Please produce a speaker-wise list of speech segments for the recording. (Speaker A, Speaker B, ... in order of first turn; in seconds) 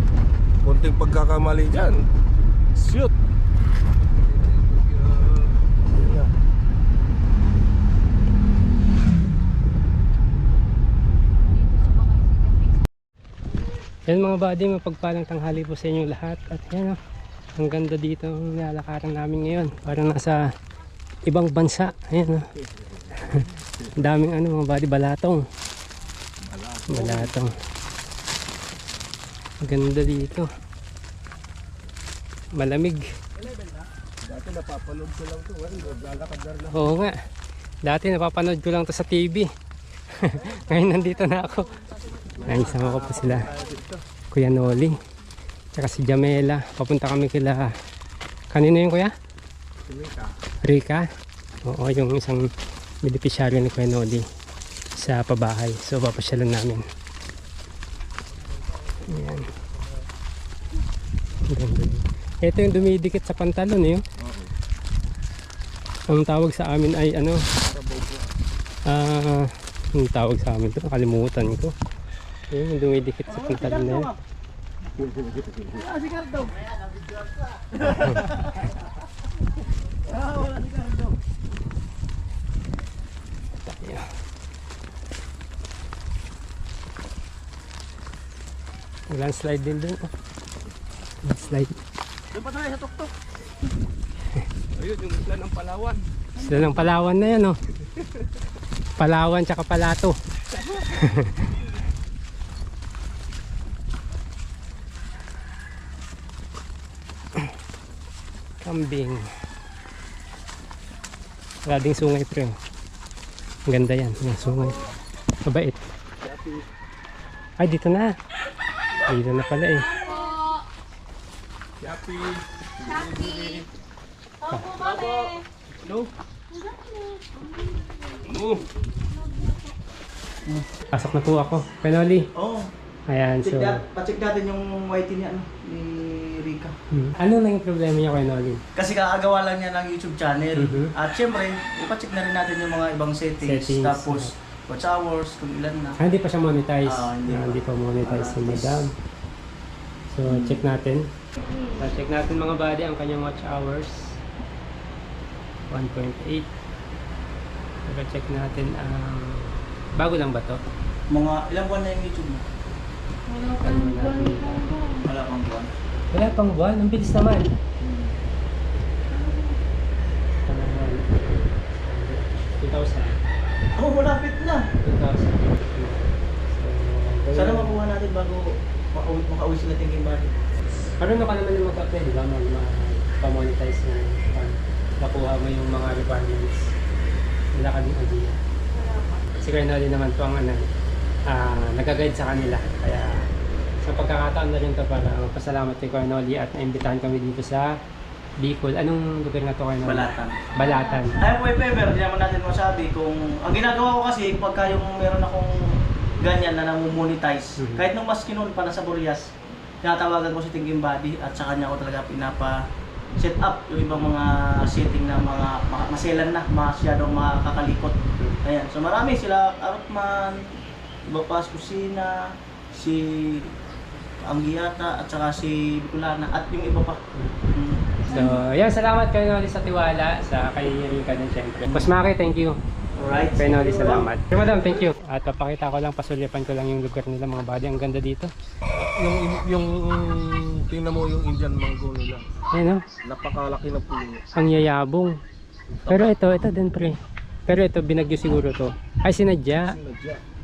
Speaker A: 0.6-2.1, 2.7-3.1, 5.9-6.3, 26.6-27.3, 34.2-36.7, 42.4-44.0, 67.6-68.2, 233.5-234.7, 238.8-242.2, 243.0-244.2, 245.8-246.1, 249.6-250.2
Speaker B: 4.1-5.5, 94.8-96.0, 121.8-123.6
Speaker C: 14.1-17.0, 17.6-20.4, 21.2-22.5, 24.0-25.4, 26.9-27.5, 29.6-30.5, 32.5-33.0, 36.7-37.1, 37.8-39.5, 40.1-41.7, 42.4-43.5, 44.3-44.9, 45.7-47.7, 48.5-49.1, 50.6-51.0, 51.6-52.5, 53.0-54.2, 55.0-56.8, 59.1-59.5, 61.5-64.0, 66.1-67.4, 68.9-71.7, 72.5-74.1, 83.6-84.0, 89.1-90.1, 91.2-91.8, 96.4-97.5, 99.0-100.2, 100.9-101.3, 108.6-109.2, 111.7-112.5, 113.7-114.9, 115.4-115.8, 117.6-118.1, 119.0-119.9, 124.5-124.7, 130.9-132.3, 133.1-133.8, 136.9-138.6, 140.6-140.9, 143.4-144.3, 146.0-148.9, 150.1-151.0, 151.7-154.2, 155.7-156.5, 157.9-160.6, 163.5-164.7, 166.1-167.5, 170.4-173.2, 174.8-177.8, 181.0-186.7, 187.5-188.4, 189.4-190.7, 191.3-193.2, 193.8-197.7, 198.4-201.2, 207.6-207.9, 228.1-232.6, 233.3-238.3, 242.5-242.8, 244.3-245.1, 245.9-246.9, 247.5-249.8
Speaker D: 73.3-74.2, 75.7-78.7, 80.0-81.2, 124.8-125.3, 125.8-126.1, 132.3-132.7, 133.4-136.7, 138.8-146.0, 146.8-148.8, 150.2-150.6, 161.1-162.4, 165.0-165.7, 167.8-168.2, 173.8-174.6, 177.3-180.4, 199.8-200.4, 201.2-205.6, 206.2-209.3, 209.8-212.6, 213.2-220.5, 221.1-222.2, 222.7-223.5, 224.2-227.0, 227.5-227.9, 233.0-234.1
Speaker E: 119.9-120.6, 122.8-123.6, 124.5-125.4, 126.5-128.3, 129.2-129.7, 163.3-164.9, 200.6-201.2